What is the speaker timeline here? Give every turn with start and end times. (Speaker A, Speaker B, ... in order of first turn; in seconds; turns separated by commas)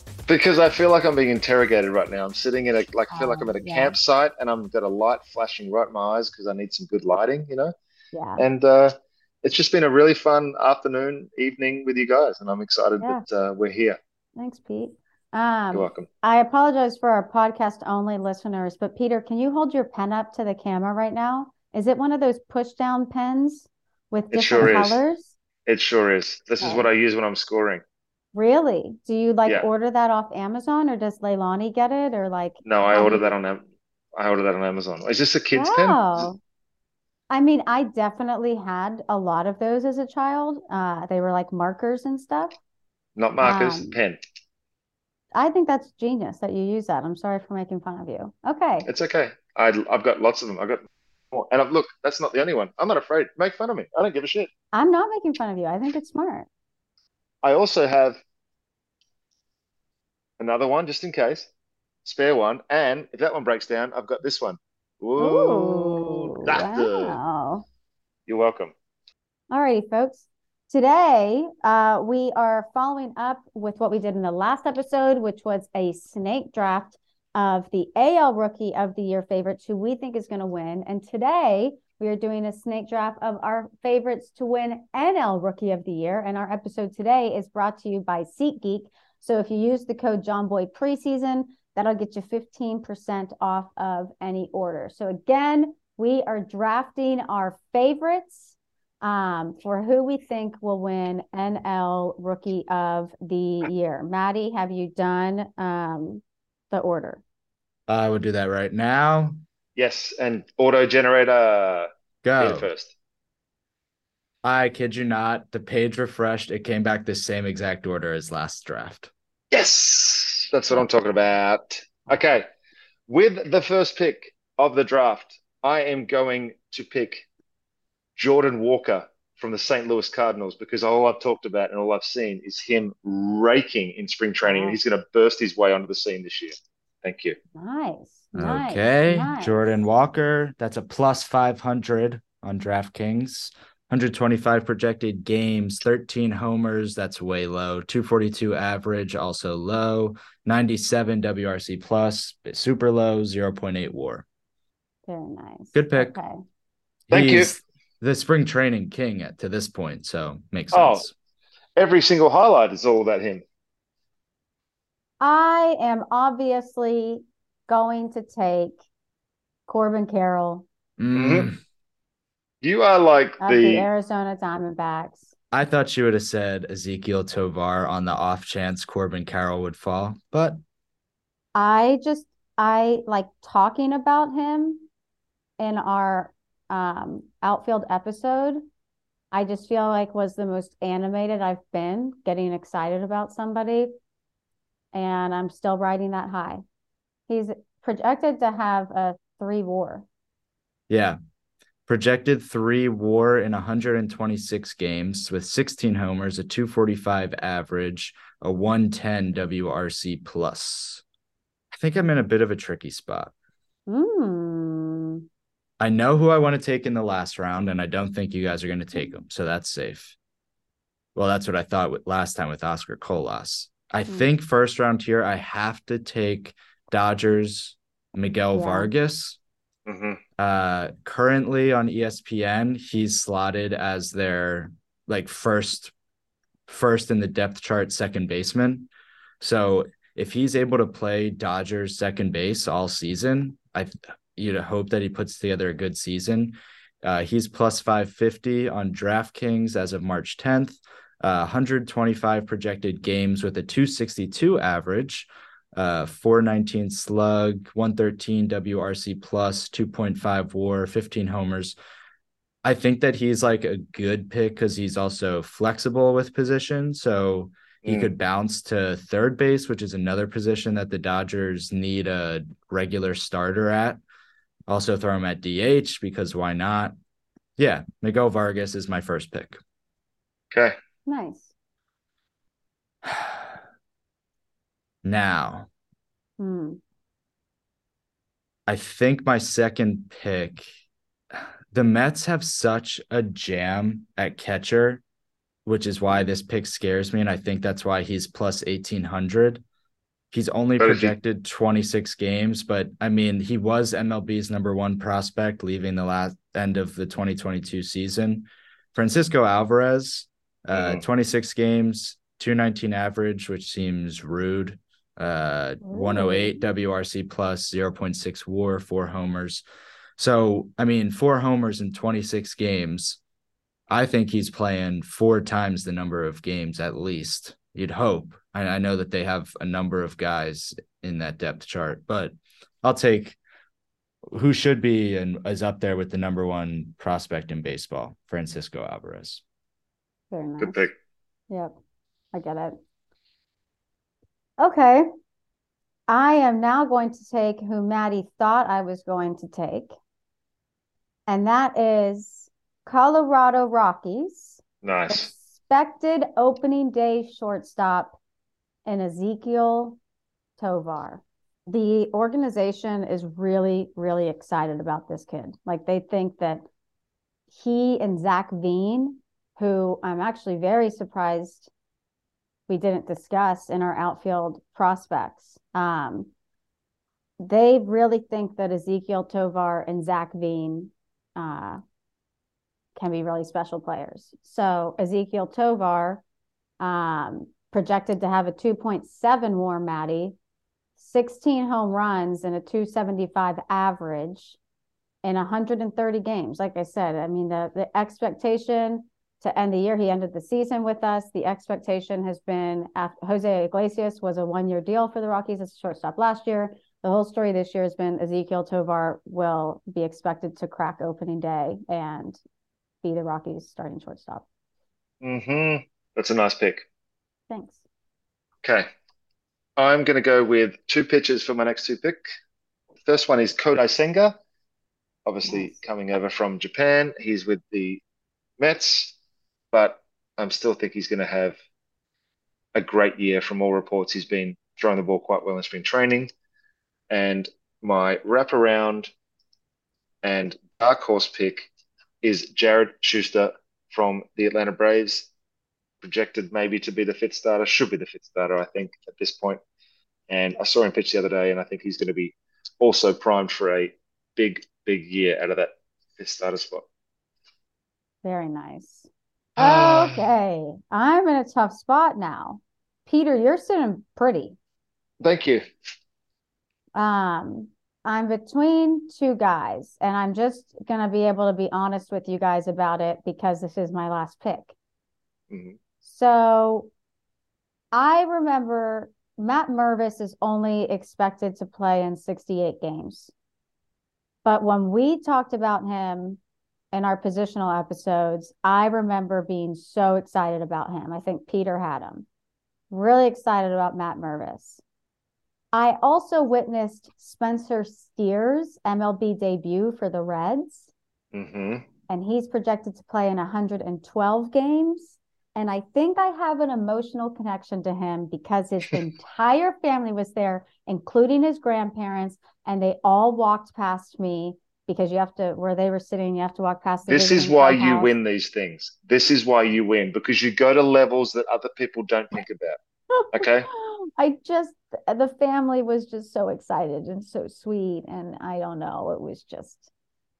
Speaker A: 0.3-7.7, Speaker B: 3.1-4.0, Speaker B: 8.1-8.4, Speaker A: 8.4-14.0, Speaker B: 14.4-25.3, Speaker A: 15.7-16.1, Speaker A: 24.3-25.0, Speaker A: 25.7-27.8, Speaker B: 26.6-26.9, Speaker B: 28.3-33.3, Speaker A: 32.6-33.6, Speaker A: 34.2-36.3, Speaker B: 35.5-36.4, Speaker B: 37.3-42.6, Speaker A: 43.2-44.2, Speaker B: 43.4-44.0, Speaker B: 45.3-48.9, Speaker A: 48.9-54.5, Speaker B: 54.7-56.5, Speaker A: 57.4-58.2, Speaker A: 60.4-61.5, Speaker A: 62.0-67.2, Speaker B: 65.2-67.7, Speaker A: 68.3-68.7, Speaker B: 69.5-107.2, Speaker C: 107.9-109.4, Speaker A: 109.8-111.9, Speaker C: 112.2-112.7, Speaker A: 112.4-112.9, Speaker C: 114.4-119.1, Speaker A: 119.5-122.5, Speaker A: 123.1-127.3, Speaker A: 128.2-137.4, Speaker B: 134.4-134.8, Speaker B: 137.5-139.8, Speaker C: 138.3-154.2, Speaker B: 155.1-156.4, Speaker C: 155.7-156.2, Speaker C: 157.1-161.1, Speaker A: 157.1-157.5, Speaker A: 160.7-161.1, Speaker A: 161.8-163.4, Speaker B: 165.2-168.8, Speaker B: 169.7-170.7, Speaker C: 171.0-171.6, Speaker A: 171.2-171.5, Speaker A: 172.6-173.9, Speaker B: 173.4-175.3, Speaker C: 175.5-180.6, Speaker B: 181.6-184.9, Speaker B: 185.6-188.6, Speaker B: 189.3-193.9, Speaker B: 194.9-196.6, Speaker B: 197.3-200.1, Speaker C: 200.9-201.2, Speaker C: 201.9-211.0, Speaker C: 211.7-213.3, Speaker B: 213.9-215.2, Speaker C: 215.8-220.2, Speaker C: 221.2-229.4, Speaker B: 224.1-224.3, Speaker B: 228.5-228.9, Speaker A: 229.9-230.2, Speaker C: 230.4-235.9, Speaker C: 236.7-238.9, Speaker C: 239.4-261.8, Speaker C: 262.6-274.0, Speaker A: 267.8-268.1, Speaker C: 274.7-276.9, Speaker C: 277.6-279.6, Speaker B: 281.1-281.5, Speaker C: 283.1-283.5, Speaker C: 285.0-285.7, Speaker B: 286.4-286.8, Speaker C: 288.7-290.6, Speaker C: 291.3-295.0, Speaker C: 295.7-299.6, Speaker C: 300.3-319.6, Speaker A: 300.8-301.1, Speaker A: 310.7-311.0, Speaker B: 315.8-316.6, Speaker C: 320.2-323.2, Speaker C: 323.9-333.4, Speaker C: 334.3-339.4, Speaker B: 340.3-340.9, Speaker A: 340.6-340.9, Speaker B: 341.5-341.8, Speaker B: 342.3-342.8, Speaker B: 344.6-345.1, Speaker B: 346.1-349.9, Speaker B: 351.3-358.2, Speaker A: 354.8-355.3, Speaker B: 358.9-360.0, Speaker B: 360.6-366.6, Speaker B: 367.5-371.7, Speaker B: 372.7-376.3, Speaker B: 377.4-381.8, Speaker B: 383.0-386.2, Speaker B: 386.8-390.4, Speaker B: 391.0-394.6, Speaker B: 395.2-412.4, Speaker B: 413.0-414.5, Speaker A: 415.2-416.8, Speaker B: 417.5-417.8, Speaker A: 419.8-422.2, Speaker A: 423.1-424.4, Speaker A: 425.3-428.0, Speaker B: 425.4-425.8, Speaker A: 428.6-429.1, Speaker A: 429.7-431.6, Speaker A: 432.8-436.3, Speaker A: 437.1-439.1, Speaker A: 440.2-441.7, Speaker A: 442.2-445.3, Speaker A: 446.0-449.6, Speaker A: 450.3-456.9, Speaker B: 458.2-464.6, Speaker A: 459.6-460.2, Speaker A: 465.2-465.6, Speaker B: 466.9-474.8, Speaker A: 475.5-475.8, Speaker B: 476.0-476.9, Speaker B: 477.9-483.3, Speaker B: 484.4-486.4, Speaker B: 486.9-492.3, Speaker B: 492.9-494.8, Speaker B: 495.7-500.9, Speaker A: 501.3-501.8, Speaker B: 502.1-518.1, Speaker A: 517.1-522.8, Speaker B: 523.1-529.9, Speaker A: 523.3-523.7